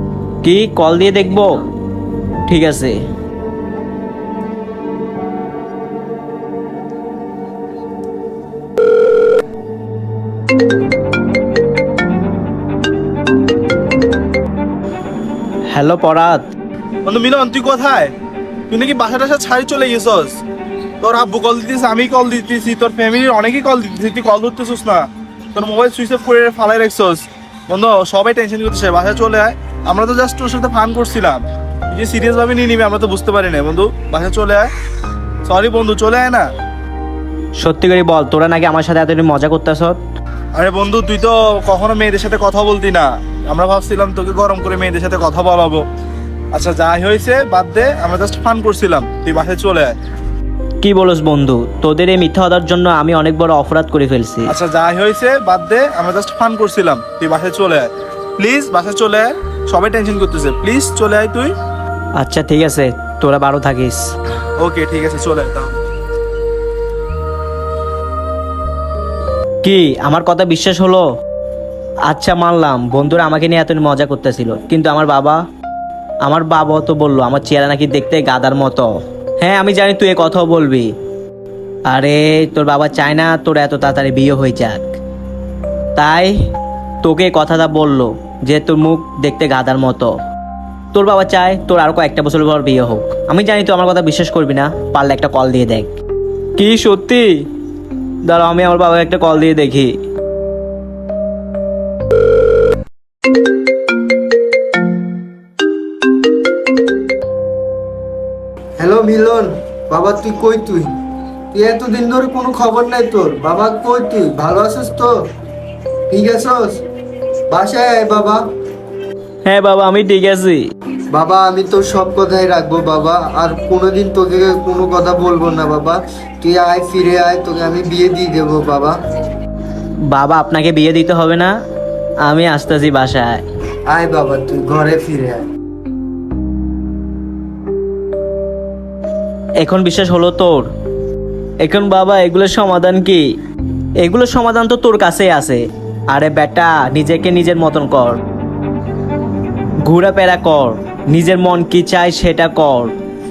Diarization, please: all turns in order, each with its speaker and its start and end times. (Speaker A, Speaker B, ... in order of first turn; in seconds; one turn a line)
Speaker A: 0.4-1.5
Speaker A: 2.5-3.0
Speaker A: 15.7-16.4
Speaker B: 17.0-18.1
Speaker B: 18.7-20.3
Speaker B: 21.0-34.7
Speaker B: 35.5-36.5
Speaker A: 37.6-40.0
Speaker B: 40.6-45.8
Speaker B: 46.5-49.9
Speaker A: 50.8-54.5
Speaker B: 54.5-61.5
Speaker A: 62.2-64.0
Speaker B: 64.6-65.7
Speaker A: 69.6-71.0
Speaker A: 72.1-75.4
Speaker A: 76.2-78.9
Speaker A: 79.4-80.9
Speaker A: 81.9-84.9
Speaker A: 86.0-86.3
Speaker A: 87.0-90.1
Speaker A: 90.9-95.9
Speaker A: 96.6-97.4
Speaker A: 98.3-99.9
Speaker C: 108.8-110.9
Speaker C: 111.5-115.1
Speaker C: 116.1-116.8
Speaker C: 117.5-118.4
Speaker A: 119.5-120.6
Speaker C: 121.1-128.9
Speaker A: 130.1-131.5
Speaker A: 132.3-133.4
Speaker C: 133.9-135.4
Speaker A: 139.6-140.7
Speaker A: 141.6-143.2
Speaker A: 144.0-148.2
Speaker A: 149.8-152.9